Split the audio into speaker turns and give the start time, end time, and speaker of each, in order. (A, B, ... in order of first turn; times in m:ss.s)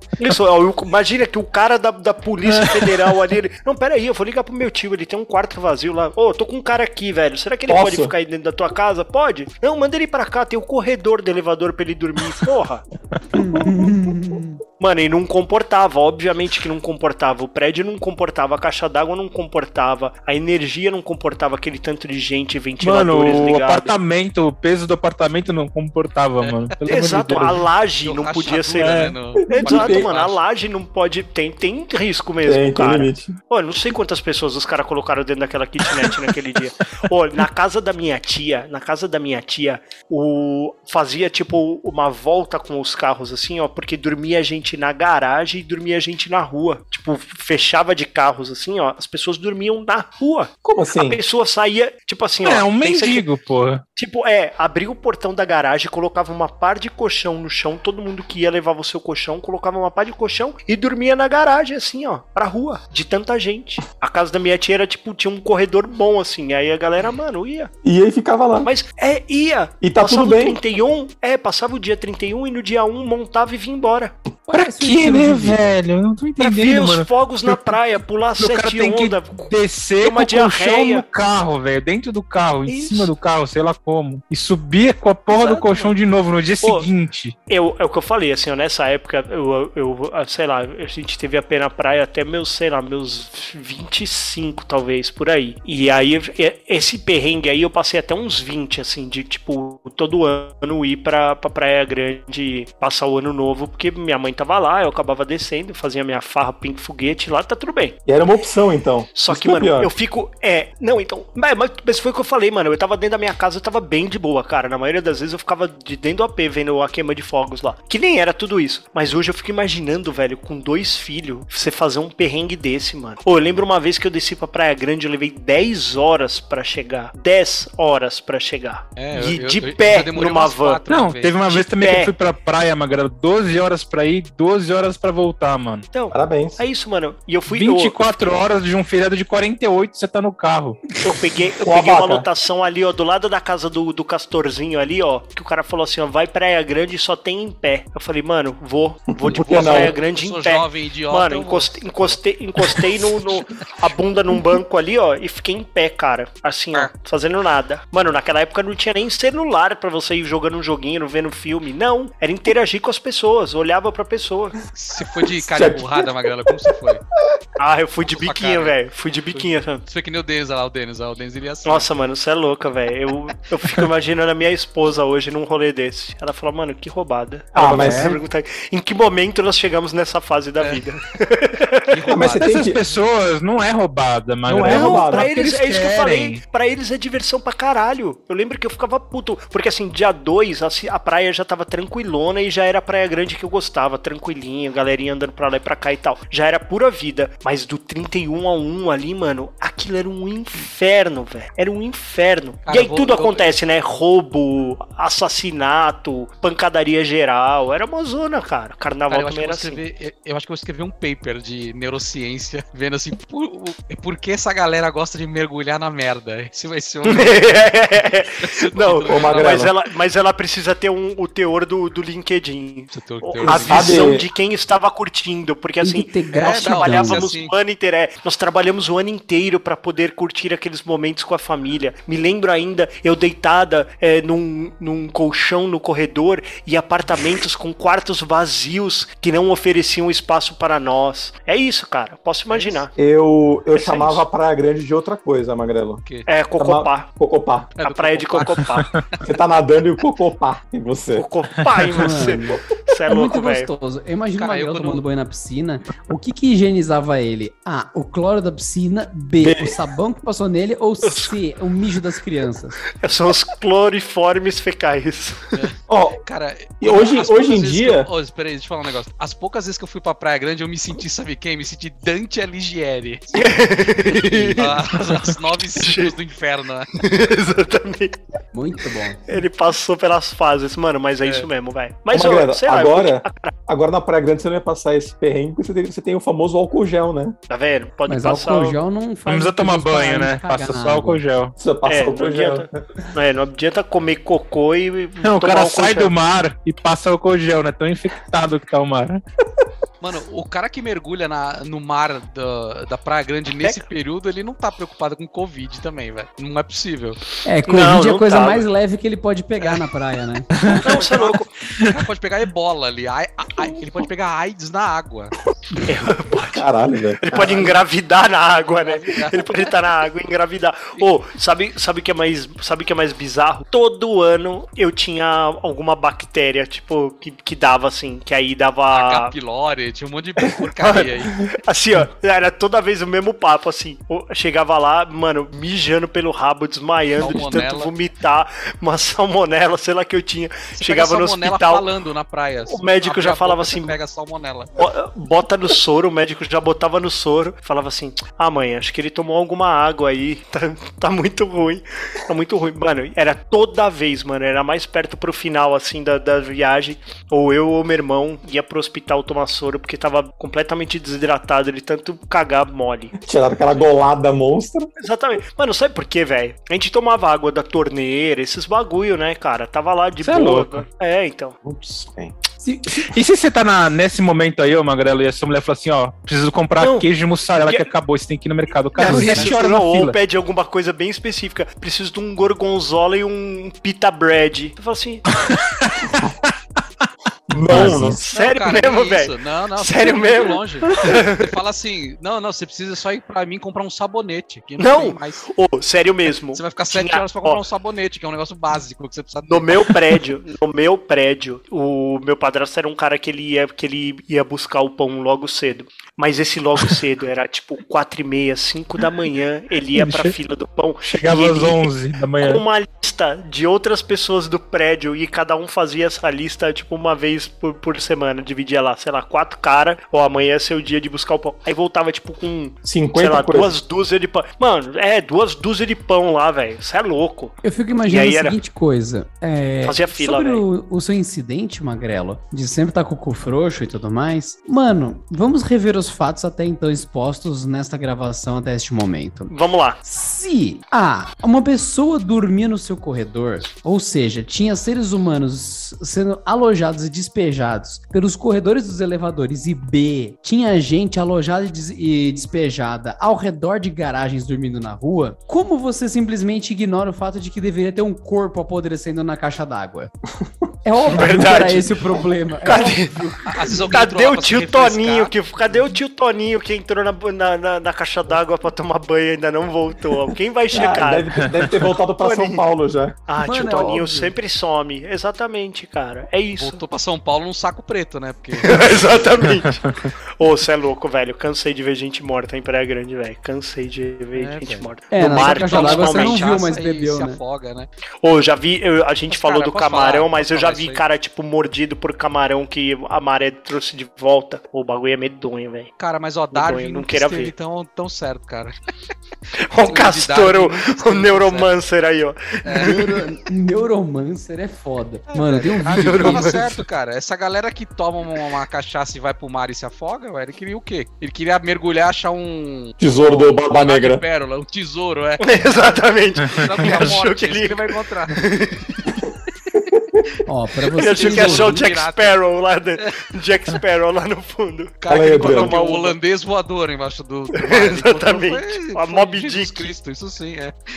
0:00.2-0:12.8 A
0:02.6-0:03.1 B
0:07.7-0:08.1 C
0:13.3-0:14.6 D
0:14.8-0:23.9 A
0:22.8-0:27.6 B
0:26.4-0:26.7 E
0:26.9-0:53.3 A
0:28.0-0:30.4 E
0:28.8-0:29.2 B
0:29.5-0:30.1 C
0:32.4-0:33.4 C
0:50.6-0:51.2 C
0:52.4-0:53.8 B
0:54.0-1:07.7 A
1:07.8-1:08.7 C
1:08.6-1:14.1 A
1:09.8-1:10.6 C
1:14.5-1:15.8 D
1:14.5-1:17.8 B
1:16.4-1:21.0 A
1:18.4-1:27.4 B
1:22.7-1:23.1 A
1:25.3-1:26.0 A
1:26.6-1:26.9 A
1:27.5-1:48.0 A
1:48.0-1:49.9 C
1:49.1-2:10.8 A
2:09.0-2:11.4 E
2:10.9-2:15.9 B
2:11.5-2:12.1 A
2:15.9-2:18.4 A
2:16.1-2:16.6 C
2:17.5-2:20.8 B
2:21.0-2:44.6 A
2:21.6-2:22.3 C
2:29.2-2:30.0 C
2:29.4-2:32.2 E
2:44.7-2:47.0 E
2:45.3-2:46.7 C
2:47.6-2:49.8 A
2:48.1-2:48.8 E
2:49.3-2:51.9 E
2:51.6-3:02.0 A
2:57.5-2:58.2 C
2:57.6-2:58.1 B
3:01.9-3:02.9 E
3:02.1-3:02.8 C
3:02.4-3:06.4 B
3:04.4-3:05.3 C
3:04.6-3:29.8 A
3:22.6-3:23.5 E
3:29.1-3:37.5 E
3:37.0-4:02.9 A
3:38.4-3:39.7 E
3:39.1-3:39.7 C
3:42.9-3:44.0 E
3:43.4-3:44.2 C
3:45.8-3:47.3 D
3:46.3-3:47.5 E
4:02.5-4:02.8 E
4:02.9-4:06.0 C
4:03.7-4:04.2 A
4:06.2-4:07.1 A
4:06.6-4:07.7 C
4:07.7-4:09.3 E
4:07.8-4:09.0 A
4:09.2-4:11.3 C
4:11.1-4:13.7 A
4:11.9-4:22.8 D
4:14.4-4:15.0 E
4:19.4-4:19.8 C
4:21.0-4:21.3 A
4:23.0-4:25.5 A
4:25.5-4:33.5 E
4:25.9-4:26.2 C
4:26.8-4:28.1 C
4:33.3-4:34.8 A
4:34.5-4:36.9 E
4:35.7-4:36.1 A
4:36.9-4:38.2 A
4:38.5-4:39.4 D
4:39.3-4:43.5 A
4:41.2-4:41.5 E
4:42.1-4:47.4 C
4:47.5-4:48.8 A
4:48.1-4:51.2 D
4:49.3-4:51.5 B
4:51.6-4:52.8 C
4:51.8-4:56.1 A
4:55.2-4:59.2 B
5:00.0-5:07.2 E
5:07.4-5:10.5 D
5:07.7-5:08.7 A
5:09.6-5:09.9 E
5:10.5-5:10.9 B
5:10.6-5:15.3 E
5:10.7-5:11.5 A
5:15.8-5:16.7 A
5:16.5-5:17.7 C
5:17.2-5:29.3 A
5:18.7-5:19.7 E
5:28.9-5:31.4 E
5:30.8-5:41.9 A
5:37.2-5:37.9 E
5:40.8-5:44.7 E
5:42.7-5:44.0 A
5:44.8-6:03.1 A
6:03.2-6:04.9 C
6:05.0-6:11.6 A
6:10.2-6:10.8 B
6:11.6-6:12.3 C
6:12.6-6:13.0 D
6:12.9-6:20.2 B
6:16.8-6:17.1 A
6:17.6-6:17.9 A
6:18.9-6:25.2 A
6:25.4-6:26.3 B
6:27.5-6:28.2 C
6:27.7-6:28.2 B
6:27.8-6:31.4 A
6:27.9-6:35.5 E
6:34.8-6:37.6 A
6:36.5-6:40.0 E
6:39.5-7:07.5 A
6:49.9-6:50.3 B
6:51.0-6:52.6 B
7:02.8-7:03.7 C
7:07.6-7:19.5 D
7:08.0-7:08.6 A
7:09.8-7:10.6 A
7:19.5-7:20.0 A
7:20.0-7:40.1 D
7:40.8-7:43.8 D
7:41.0-7:42.0 A
7:42.6-7:43.2 A
7:43.4-7:45.3 E
7:43.9-7:51.5 A
7:50.7-7:53.2 C
7:52.2-7:52.6 A
7:53.3-7:56.8 A
7:53.4-7:54.3 D
7:56.6-7:58.8 E
7:58.6-8:06.5 A
8:04.3-8:07.9 E
8:05.1-8:07.4 D
8:08.2-8:15.9 A
8:09.3-8:11.0 E
8:16.0-8:18.7 E
8:16.5-8:17.5 A
8:19.5-8:23.1 A
8:19.8-8:21.7 E
8:22.6-8:23.0 E
8:22.8-8:26.6 D
8:25.3-8:38.4 E
8:25.9-8:26.8 A
8:33.0-8:34.2 C
8:35.4-8:39.2 A
8:36.4-8:37.0 B
8:40.4-8:41.8 D
8:41.0-8:42.4 E
8:41.0-8:46.2 A
8:45.0-8:50.7 E
8:45.1-8:45.8 C
8:47.6-8:49.9 A